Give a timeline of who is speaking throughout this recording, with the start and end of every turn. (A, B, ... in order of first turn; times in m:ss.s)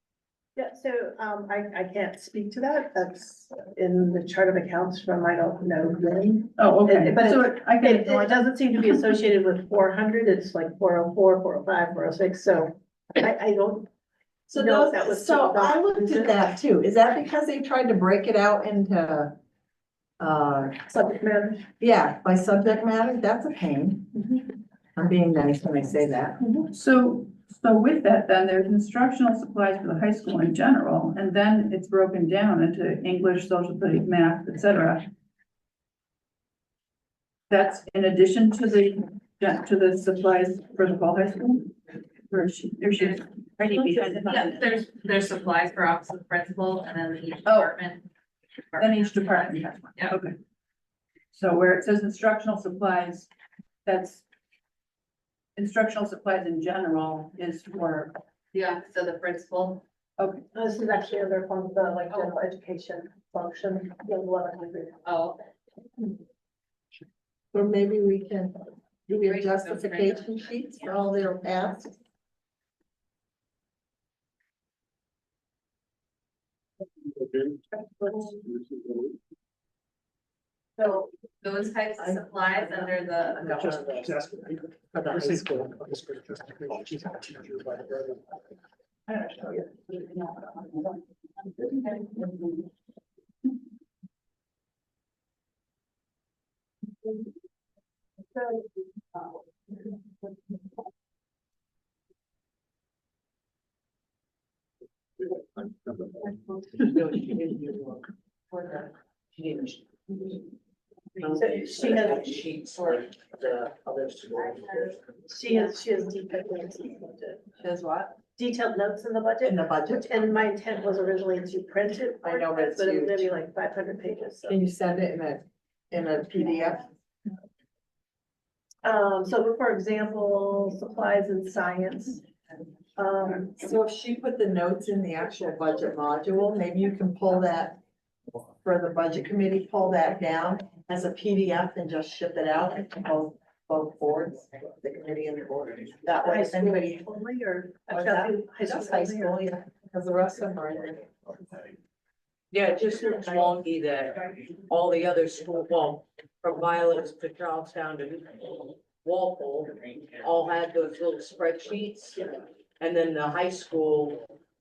0:00.6-0:13.9 A
0:06.6-0:09.0 B
0:14.5-0:19.3 C
0:14.6-0:16.3 A
0:20.2-0:20.9 C
0:20.9-0:21.6 A
0:21.8-0:24.4 C
0:25.0-0:26.4 C
0:26.7-0:35.1 B
0:37.5-0:41.8 B
0:42.3-0:44.8 B
0:43.0-0:48.1 D
0:47.4-0:47.7 B
0:48.7-0:50.2 D
0:48.8-0:50.3 B
0:51.3-0:53.3 B
0:53.8-0:54.2 B
0:55.6-0:58.2 B
0:58.5-0:59.8 D
1:00.2-1:00.4 B
1:00.5-1:05.0 A
1:02.1-1:02.4 D
1:05.0-1:05.4 D
1:07.5-1:12.0 C
1:09.2-1:10.8 D
1:20.8-1:24.0 D
1:23.4-1:24.2 C
1:23.9-1:28.2 E
1:24.9-1:25.8 C
1:29.1-1:30.9 B
1:46.7-1:50.4 F
1:51.2-1:55.0 F
1:51.2-1:52.2 A
1:55.3-1:57.4 A
1:57.6-1:58.2 C
1:58.4-2:04.5 A
1:59.4-2:00.2 C
2:02.2-2:03.3 C
2:04.4-2:06.9 C
2:08.8-2:12.2 A
2:13.0-2:13.6 A
2:13.5-2:17.8 C
2:18.6-2:27.0 C
2:26.2-2:29.4 A
2:27.9-2:31.3 C
2:32.5-2:42.2 F
2:42.8-2:44.2 F